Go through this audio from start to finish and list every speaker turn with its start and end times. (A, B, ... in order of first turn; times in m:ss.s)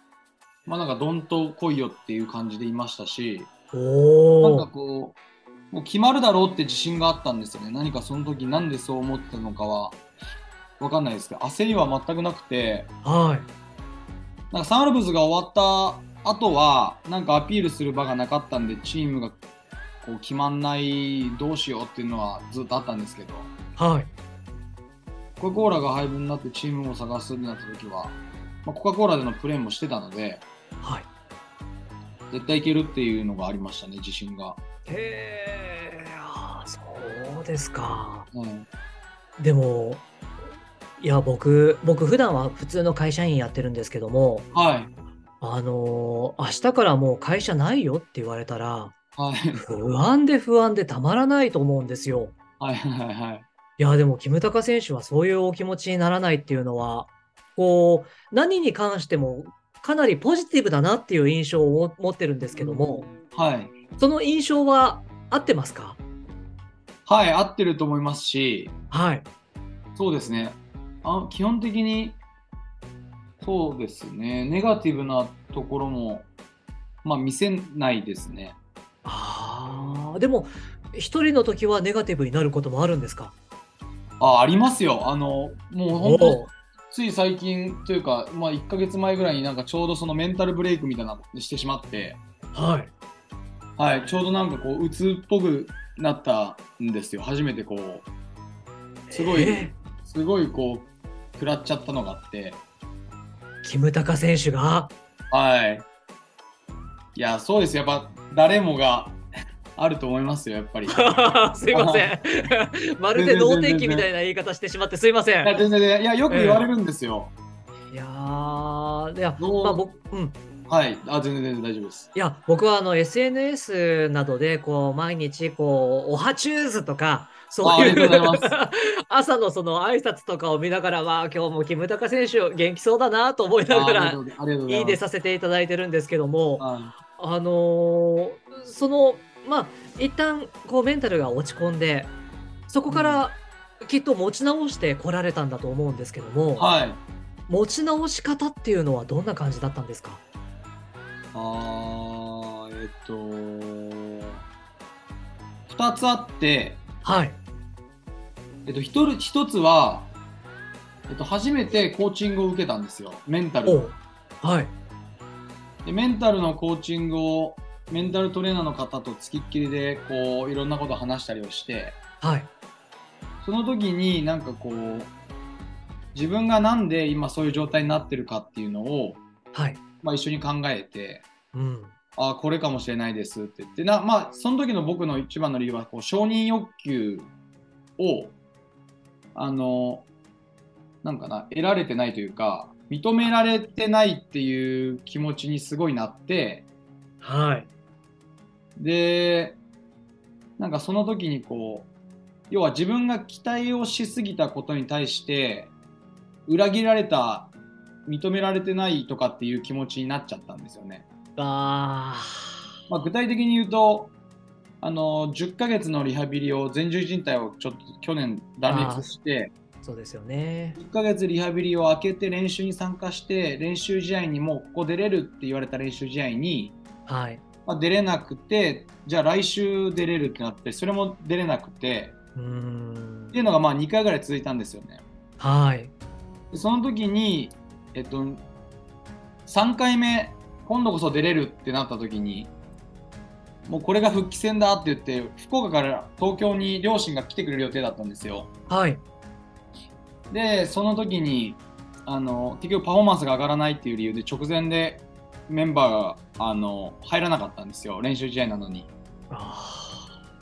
0:00.6-0:03.5 A
0:03.7-0:04.7 B
0:04.4-0:05.2 A
0:05.7-0:10.0 A
0:10.8-0:12.9 A
0:13.0-0:13.5 B
0:14.5-0:19.4 A
0:20.0-0:23.5 A
0:23.8-0:24.1 B
0:25.4-0:30.4 A
0:30.8-0:31.1 B
0:32.3-0:34.6 A
0:34.9-0:38.3 B
0:38.3-0:38.7 A
0:39.4-0:40.0 B
0:41.0-0:44.5 B
0:44.5-0:44.9 A
0:45.4-0:48.9 B
0:49.2-0:49.6 A
0:49.5-0:52.3 B
0:52.6-0:53.5 A
0:53.8-1:03.1 B
1:02.6-1:03.7 A
1:04.0-1:06.0 B
1:07.0-1:08.7 A
1:08.9-1:09.3 B
1:10.0-1:12.2 A
1:13.4-1:16.3 A
1:17.0-1:18.6 A
1:19.0-1:23.3 B
1:24.2-1:32.2 A
1:25.9-1:26.5 B
1:32.5-1:32.9 B
1:33.8-1:38.1 A
1:39.1-1:39.7 B
1:39.1-1:42.6 A
1:43.6-1:44.9 B
1:45.3-1:45.8 A
1:47.1-1:49.2 A
1:49.8-1:51.1 A
1:50.9-1:55.6 B
1:51.7-1:52.1 A
1:53.1-1:54.1 A
1:55.4-1:57.3 A
1:56.3-1:56.7 B
1:57.9-2:00.4 B
1:59.4-1:59.8 A
2:00.7-2:02.1 A
2:02.1-2:22.1 B
2:07.6-2:08.5 A
2:13.7-2:15.0 A
2:16.6-2:16.9 A
2:22.7-2:26.7 B
2:22.9-2:23.2 A
2:26.6-2:27.0 A
2:27.5-2:30.2 B
2:31.3-2:34.4 A
2:35.7-2:36.8 A
2:37.0-2:37.4 B
2:38.6-2:40.1 A
2:41.1-2:43.9 A
2:43.6-2:44.7 B
2:45.8-2:52.0 A
2:52.2-2:52.5 B
2:53.4-2:55.1 A
2:56.1-2:59.2 A
2:59.5-2:59.8 B
3:00.0-3:01.2 A
3:01.5-3:01.9 B
3:02.2-3:07.3 A
3:08.0-3:08.3 A
3:09.3-3:10.1 A
3:11.0-3:16.6 A
3:17.2-3:17.7 B
3:18.8-3:19.6 A
3:20.6-3:21.9 A
3:22.5-3:25.7 A
3:26.5-3:27.5 A
3:28.0-3:31.0 A
3:31.4-3:32.5 B
3:32.9-3:34.1 A
3:34.8-3:39.5 A
3:38.7-3:39.1 B
3:39.8-3:40.8 B
3:40.8-3:46.8 A
3:47.1-3:47.4 B
3:47.6-3:52.2 A
3:52.4-3:53.4 B
3:53.3-3:55.0 A
3:55.4-3:55.9 B
3:56.5-3:58.4 A
3:59.4-4:02.5 A
4:03.6-4:08.5 A
4:08.7-4:09.0 B
4:10.3-4:18.9 A
4:19.3-4:20.1 B